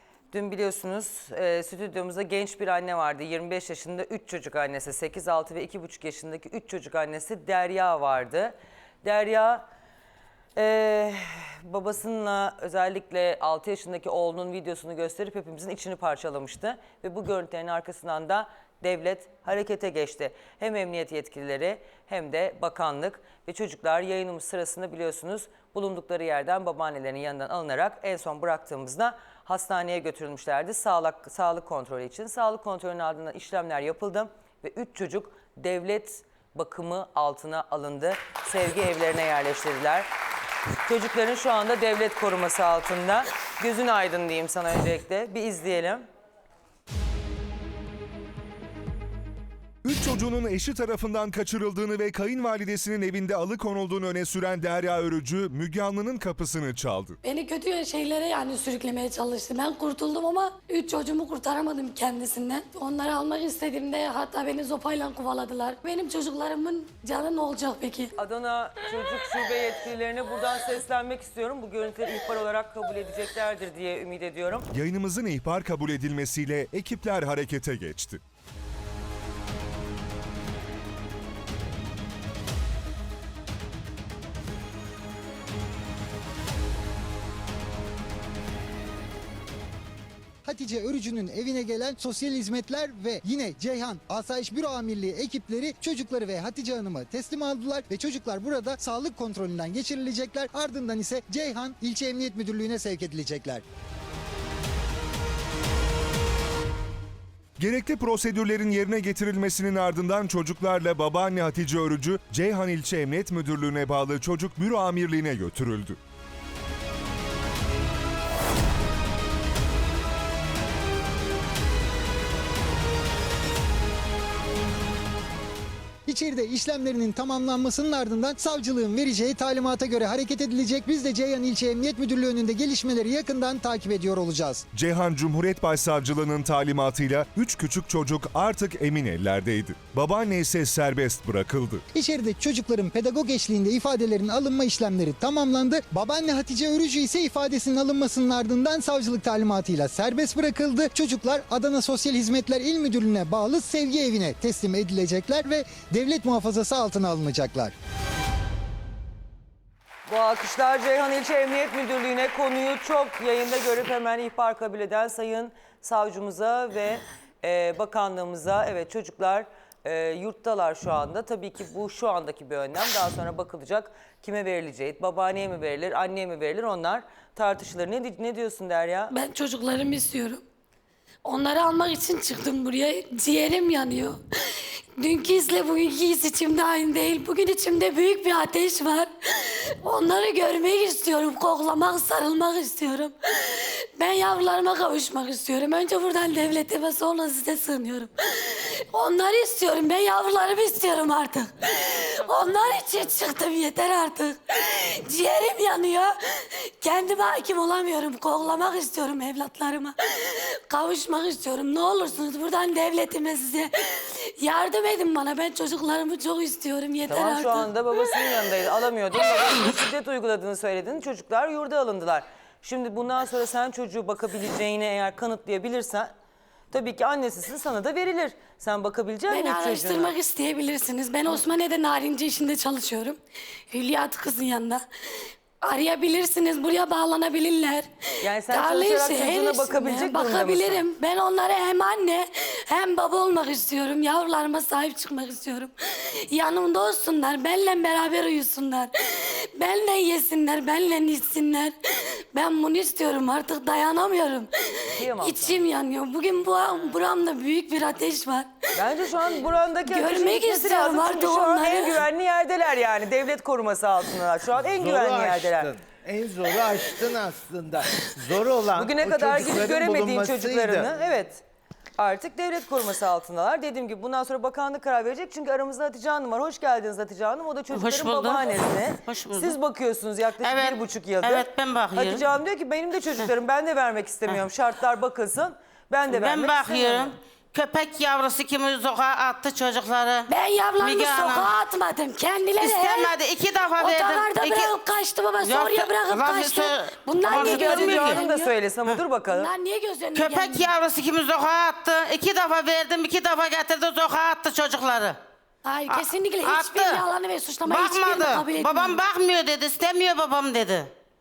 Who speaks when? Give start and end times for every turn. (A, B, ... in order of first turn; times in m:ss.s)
0:00.3-0:09.6 A
0:10.6-0:40.1 A
0:40.9-0:46.0 A
0:49.8-0:57.2 B
0:57.2-1:08.1 C
1:08.2-1:14.7 A
1:14.7-1:18.2 B
1:30.4-1:43.6 D
1:47.6-1:56.0 B
2:06.1-2:14.6 D
2:14.8-2:21.8 B
2:21.9-2:37.7 D
2:40.1-2:59.1 A
2:59.1-3:00.4 C
3:01.2-3:04.2 C
3:05.0-3:37.7 C
3:37.1-3:46.1 A
3:46.7-3:50.1 A
3:49.3-3:53.2 C
3:53.7-3:54.8 C
3:55.6-3:57.9 C
3:58.2-4:00.8 A
3:58.5-4:05.7 C
4:06.3-4:11.7 C
4:12.3-4:14.5 C
4:15.0-4:15.6 A
4:15.0-4:18.5 C
4:18.8-4:25.7 A
4:19.9-4:21.9 C
4:24.8-4:30.9 E
4:28.8-4:31.4 A
4:32.0-4:47.1 A
4:37.7-4:39.6 F
4:40.4-4:42.2 F
4:46.1-4:51.5 F
4:50.3-4:53.1 C
4:52.6-4:54.8 F
4:53.8-4:58.5 C
4:55.4-4:58.2 F
4:57.2-4:59.5 A
4:59.3-5:00.7 C
5:00.1-5:05.2 F
5:05.7-5:09.0 C
5:05.9-5:07.1 F
5:07.6-5:10.9 F